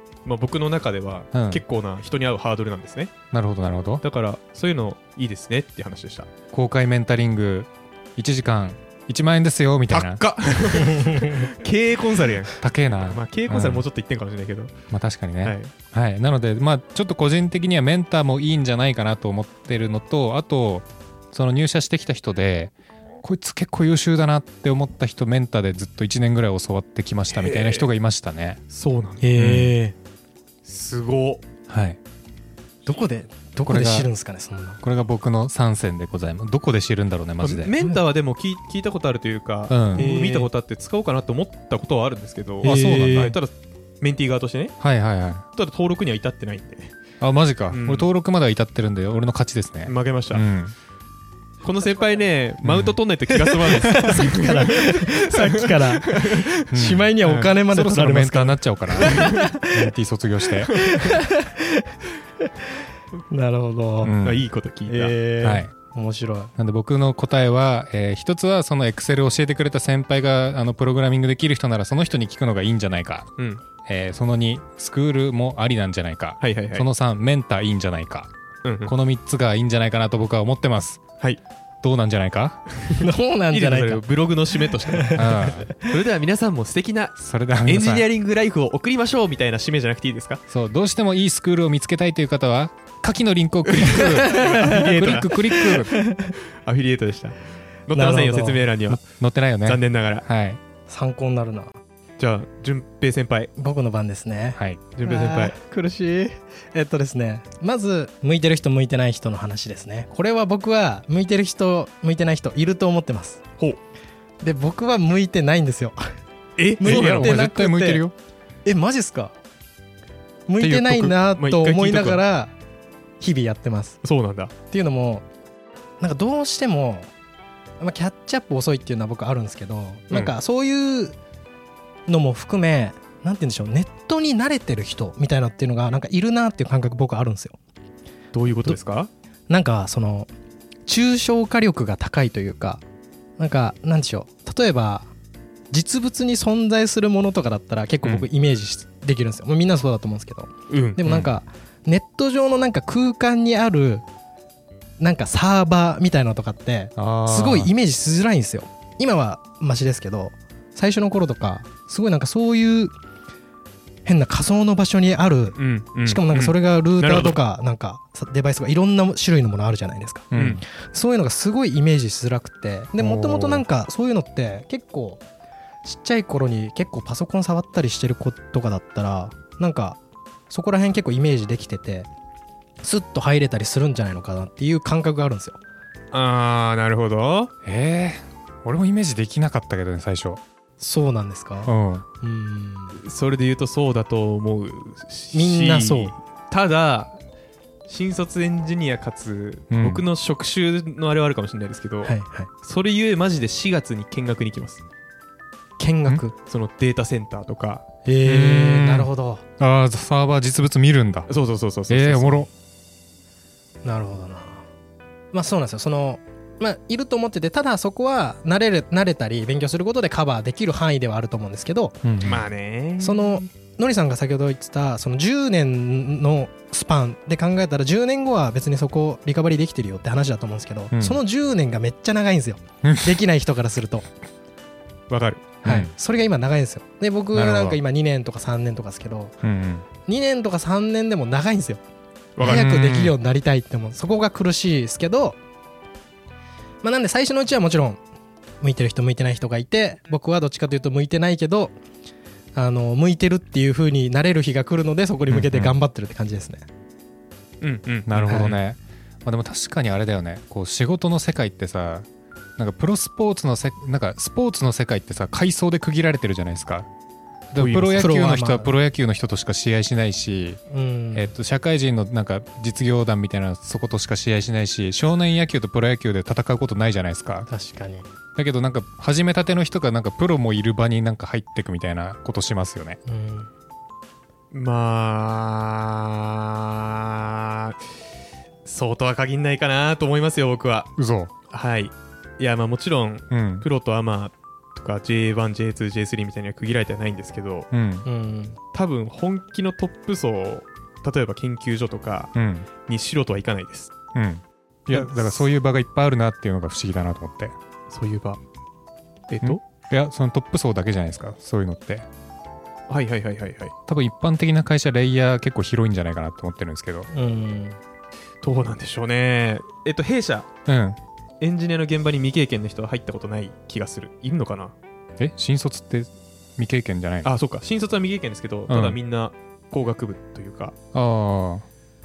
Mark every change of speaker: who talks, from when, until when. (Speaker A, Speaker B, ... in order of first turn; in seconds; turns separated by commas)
Speaker A: 0.2-3.1, Speaker B: 1.3-1.6, Speaker B: 3.3-4.0, Speaker A: 4.0-6.3, Speaker B: 6.5-10.2, Speaker A: 9.9-14.7, Speaker C: 10.9-11.5, Speaker B: 12.6-13.8, Speaker B: 14.9-22.7, Speaker A: 15.4-15.7, Speaker B: 23.2-28.6, Speaker A: 27.3-27.9, Speaker A: 28.7-29.3, Speaker C: 29.2-29.9, Speaker B: 29.4-29.7, Speaker A: 30.6-31.4, Speaker B: 31.7-32.0, Speaker C: 32.9-34.8, Speaker B: 33.6-34.1, Speaker B: 34.8-37.7, Speaker A: 37.4-44.8, Speaker B: 39.7-40.0, Speaker C: 40.0-40.5, Speaker C: 42.6-43.4, Speaker B: 42.6-43.4, Speaker B: 44.8-45.4, Speaker A: 45.5-46.9, Speaker B: 47.2-50.7, Speaker A: 47.7-48.1, Speaker A: 49.8-50.4, Speaker A: 51.6-56.7, Speaker B: 52.6-53.0, Speaker C: 53.3-59.9, Speaker B: 56.7-60.9, Speaker A: 57.2-57.5, Speaker A: 59.1-59.4, Speaker A: 60.7-61.1, Speaker C: 60.7-61.9, Speaker C: 63.3-64.1, Speaker B: 64.0-64.4, Speaker A: 64.2-65.2, Speaker C: 64.9-66.5, Speaker B: 65.4-65.7, Speaker B: 66.6-73.3, Speaker A: 73.4-73.6, Speaker B: 73.8-78.3, Speaker A: 76.4-76.9, Speaker A: 78.6-78.9, Speaker B: 78.8-81.0, Speaker B: 81.8-82.6, Speaker A: 82.8-90.4, Speaker C: 83.0-85.7, Speaker B: 85.1-85.7, Speaker B: 87.2-88.1, Speaker B: 90.5-95.9, Speaker A: 93.7-95.6, Speaker C: 94.2-96.3, Speaker A: 96.6-99.0, Speaker C: 97.9-98.7, Speaker B: 99.0-100.6, Speaker A: 99.6-100.2, Speaker C: 100.8-101.8, Speaker A: 102.2-103.5, Speaker C: 103.6-113.4, Speaker B: 104.5-104.8, Speaker A: 105.0-105.6, Speaker C: 114.4-116.0, Speaker A: 116.6-117.3, Speaker C: 116.8-118.0, Speaker B: 116.8-118.1, Speaker C: 118.6-119.3, Speaker C: 120.5-122.5, Speaker A: 120.6-122.2, Speaker C: 123.2-124.0, Speaker A: 124.0-124.5, Speaker C: 124.7-125.2, Speaker C: 126.0-127.1, Speaker C: 127.8-131.2, Speaker C: 132.1-137.6, Speaker A: 138.3-139.1, Speaker C: 139.5-140.3, Speaker C: 140.9-142.8, Speaker C: 143.4-145.1, Speaker C: 145.7-154.0, Speaker B: 148.0-148.3, Speaker A: 150.7-151.0, Speaker B: 151.0-151.3, Speaker C: 155.0-162.9, Speaker B: 157.0-157.7, Speaker C: 164.0-175.2, Speaker A: 165.6-167.4, Speaker B: 170.3-170.6, Speaker A: 170.3-170.6, Speaker B: 173.0-173.6, Speaker C: 175.8-180.0, Speaker C: 180.5-182.1, Speaker C: 182.8-185.6, Speaker A: 186.1-187.5, Speaker B: 187.6-190.4, Speaker C: 190.8-193.0, Speaker B: 191.6-192.1, Speaker A: 192.9-197.2, Speaker C: 195.3-196.1, Speaker A: 197.9-204.8, Speaker B: 199.7-200.0, Speaker C: 202.0-202.5, Speaker C: 205.8-206.3, Speaker A: 206.4-207.9, Speaker C: 208.0-209.4, Speaker B: 208.2-211.3, Speaker A: 211.3-212.5, Speaker B: 211.9-212.5, Speaker C: 213.8-214.6, Speaker C: 215.3-222.1, Speaker B: 222.0-222.4, Speaker A: 222.2-223.5, Speaker C: 223.0-234.1, Speaker B: 230.9-231.2, Speaker B: 232.8-233.1, Speaker A: 235.1-235.5, Speaker B: 235.6-235.9, Speaker C: 235.6-239.3, Speaker B: 237.3-237.8, Speaker B: 239.4-239.8, Speaker C: 240.1-241.8, Speaker A: 242.4-242.7, Speaker C: 242.4-245.4, Speaker B: 242.4-243.1, Speaker C: 246.8-248.0, Speaker C: 248.6-251.7, Speaker C: 252.5-256.6, Speaker B: 255.3-255.8, Speaker A: 257.6-258.6, Speaker B: 258.1-262.1, Speaker B: 262.6-266.9, Speaker C: 267.5-268.7, Speaker B: 267.5-270.6, Speaker A: 267.6-268.0, Speaker C: 270.7-271.3, Speaker B: 271.1-277.5, Speaker C: 277.5-278.1, Speaker B: 278.3-283.0, Speaker C: 283.1-283.5, Speaker A: 284.5-287.8, Speaker A: 288.6-290.9, Speaker B: 291.0-291.3, Speaker A: 291.5-297.7, Speaker B: 293.3-293.6, Speaker B: 297.7-298.1, Speaker C: 298.1-298.6, Speaker A: 298.7-302.3, Speaker B: 302.3-302.7, Speaker A: 302.9-303.9, Speaker B: 304.1-307.6, Speaker A: 304.9-305.5, Speaker A: 307.9-308.4, Speaker A: 309.3-309.6, Speaker B: 309.4-312.1, Speaker A: 312.9-313.7, Speaker B: 313.9-317.1, Speaker C: 317.1-317.8, Speaker A: 318.4-320.5, Speaker B: 320.6-321.0, Speaker A: 321.4-324.7, Speaker B: 325.2-327.3, Speaker A: 327.2-330.7, Speaker B: 328.7-329.0, Speaker B: 330.9-331.6